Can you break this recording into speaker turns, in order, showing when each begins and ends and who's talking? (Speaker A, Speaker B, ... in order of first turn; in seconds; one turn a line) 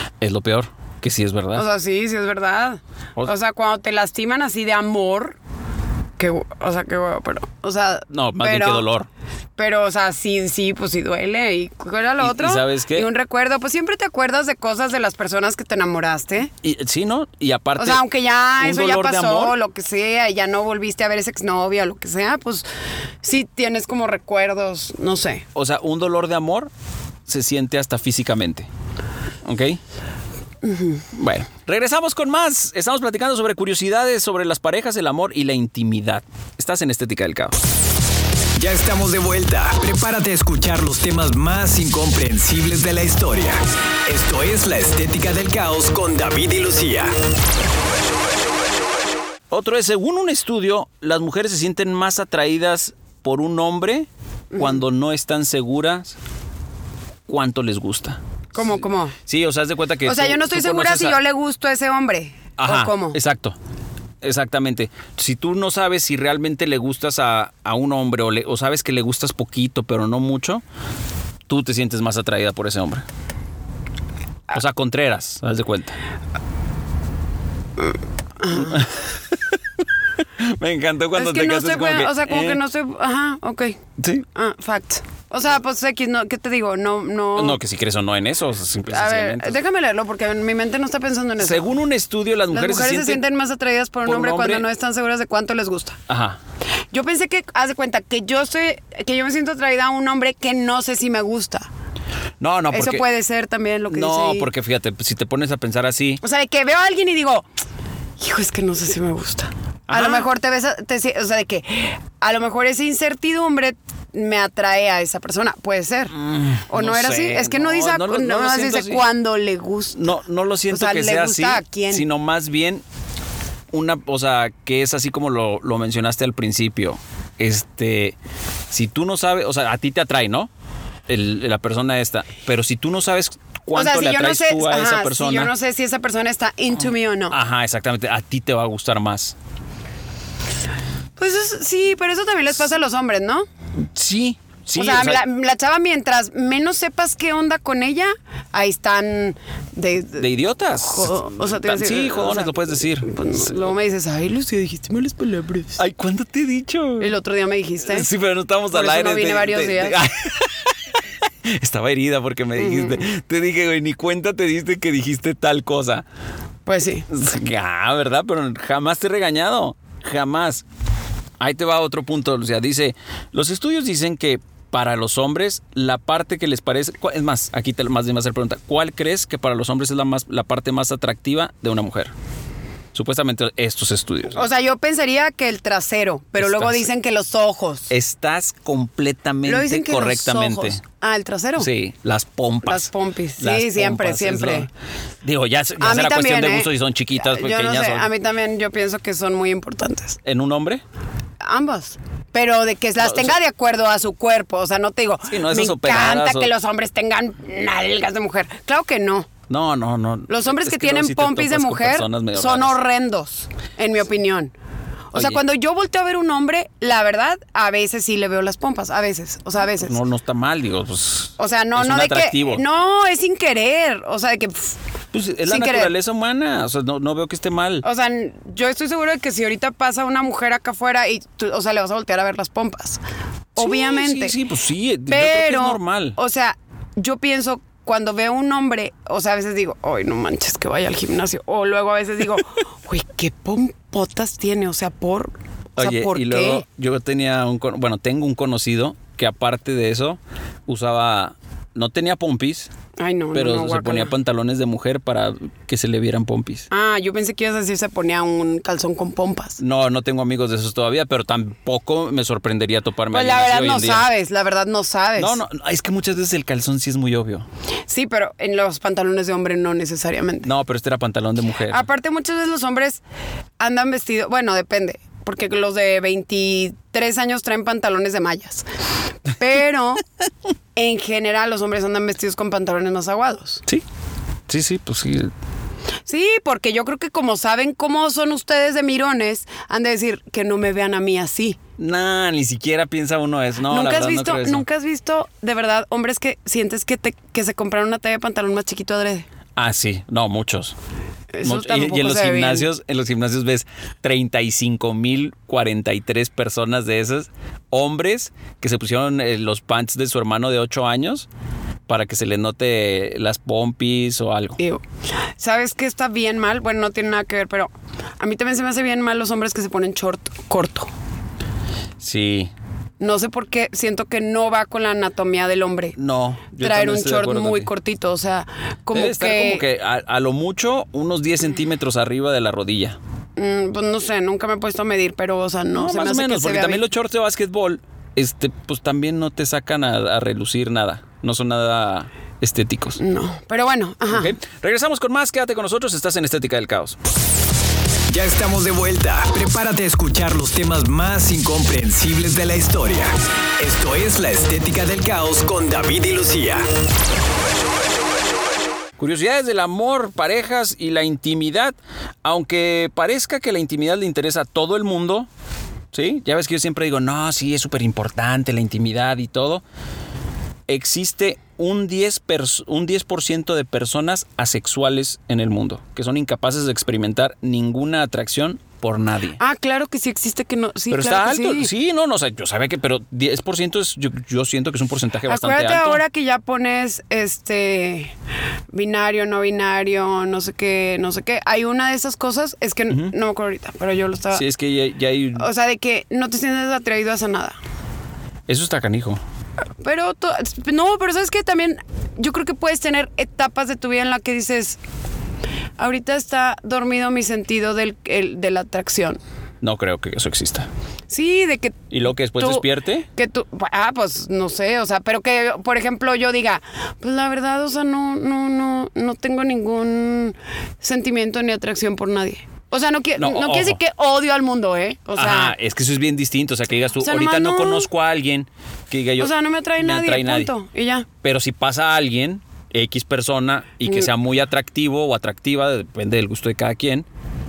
Speaker A: 0.2-1.7
Speaker B: 1.6-5.4
Speaker B: 6.2-8.8
Speaker A: 8.1-9.1
Speaker B: 9.6-16.5
Speaker A: 12.2-13.1
Speaker A: 16.6-18.0
Speaker B: 17.8-22.6
Speaker A: 18.6-19.6
Speaker B: 23.2-25.4
Speaker A: 25.6-26.7
Speaker A: 27.3-28.7
Speaker A: 29.4-29.8
Speaker B: 30.6-31.0
Speaker A: 31.1-37.6
Speaker C: 38.6-47.1
Speaker A: 49.5-56.2
Speaker B: 54.5-54.8
Speaker A: 57.3-61.2
Speaker B: 58.5-59.1
Speaker B: 60.1-63.2
Speaker A: 62.6-63.6
Speaker A: 64.2-70.6
Speaker A: 71.5-73.0
Speaker A: 74.5-76.0
Speaker B: 77.9-78.8
Speaker A: 78.5-79.5
Speaker A: 80.4-82.6
Speaker B: 81.1-83.8
Speaker A: 84.0-84.3
Speaker B: 84.3-87.6
Speaker A: 87.4-89.6
Speaker B: 88.9-91.7
Speaker A: 91.4-93.2
Speaker B: 92.5-96.0
Speaker A: 94.1-94.6
Speaker A: 96.1-96.4
Speaker B: 96.9-101.7
Speaker A: 102.4-103.0
Speaker B: 102.7-104.5
Speaker A: 103.9-106.2
Speaker B: 106.2-107.5
Speaker B: 108.2-116.2
Speaker A: 109.9-110.3
Speaker A: 116.1-119.0
Speaker B: 116.7-120.2
Speaker A: 120.0-122.8
Speaker B: 120.7-122.0
Speaker A: 123.7-128.2
Speaker A: 128.7-130.5
Speaker A: 131.1-135.5
Speaker B: 133.7-137.4
Speaker A: 137.3-139.3
Speaker B: 141.2-143.5
Speaker A: 143.9-145.2
Speaker B: 144.8-150.3
Speaker A: 150.2-153.6
Speaker B: 150.8-155.8
Speaker A: 155.8-157.1
Speaker B: 157.0-158.1
Speaker A: 157.8-160.7
Speaker B: 158.7-159.9
Speaker A: 161.5-166.1
Speaker B: 162.6-163.0
Speaker B: 166.7-167.1
Speaker A: 167.1-170.6
Speaker A: 171.4-182.1
Speaker A: 182.9-184.4
Speaker B: 184.3-187.9
Speaker A: 186.4-186.9
Speaker A: 187.9-190.8
Speaker B: 189.5-191.7
Speaker A: 191.6-194.7
Speaker B: 192.7-194.7
Speaker A: 195.2-198.1
Speaker B: 195.8-200.2
Speaker A: 200.2-200.8
Speaker B: 201.4-209.3
Speaker A: 203.0-203.4
Speaker A: 205.3-206.5
Speaker A: 209.5-212.8
Speaker B: 210.3-214.5
Speaker B: 215.1-220.0
Speaker A: 215.1-215.4
Speaker A: 219.7-222.6
Speaker B: 221.4-224.8
Speaker A: 225.1-227.8
Speaker B: 225.4-225.9
Speaker B: 227.8-233.0
Speaker B: 233.6-234.4
Speaker A: 233.6-236.2
Speaker B: 235.1-246.7
Speaker A: 245.8-252.7
Speaker B: 253.0-254.1
Speaker A: 253.3-256.7
Speaker B: 256.7-259.6
Speaker A: 259.6-264.1
Speaker B: 263.1-265.4
Speaker A: 265.2-267.5
Speaker B: 267.9-270.5
Speaker A: 270.4-271.9
Speaker B: 271.7-273.0
Speaker B: 273.6-278.7
Speaker B: 279.3-280.0
Speaker B: 280.8-283.6
Speaker A: 284.5-285.3
Speaker B: 286.1-291.6
Speaker A: 291.8-294.6
Speaker B: 293.7-299.3
Speaker A: 299.6-300.8
Speaker B: 301.3-302.7
Speaker A: 301.4-311.3
Speaker A: 311.9-314.6
Speaker B: 314.6-314.8
Speaker B: 315.4-320.9
Speaker A: 322.0-322.5
Speaker B: 323.0-325.9
Speaker A: 326.0-327.7
Speaker B: 326.6-329.6
Speaker A: 328.9-333.0
Speaker B: 333.4-336.8
Speaker A: 335.7-343.0
Speaker B: 343.0-344.3
Speaker A: 344.1-347.0
Speaker C: 348.1-356.7
Speaker A: 359.0-365.3
Speaker A: 365.9-369.6
Speaker A: 370.7-379.4
Speaker B: 379.4-381.7
Speaker A: 380.9-386.0
Speaker B: 385.3-388.1
Speaker B: 388.7-394.4
Speaker A: 394.3-395.5
Speaker B: 395.4-397.6
Speaker A: 398.5-399.2
Speaker B: 399.8-404.8
Speaker B: 405.8-409.2
Speaker A: 409.6-410.7
Speaker B: 411.1-411.8
Speaker A: 411.9-413.1
Speaker B: 412.4-425.5
Speaker A: 423.2-423.8
Speaker A: 425.2-430.5
Speaker B: 427.0-427.9
Speaker B: 429.2-431.1
Speaker A: 431.2-437.1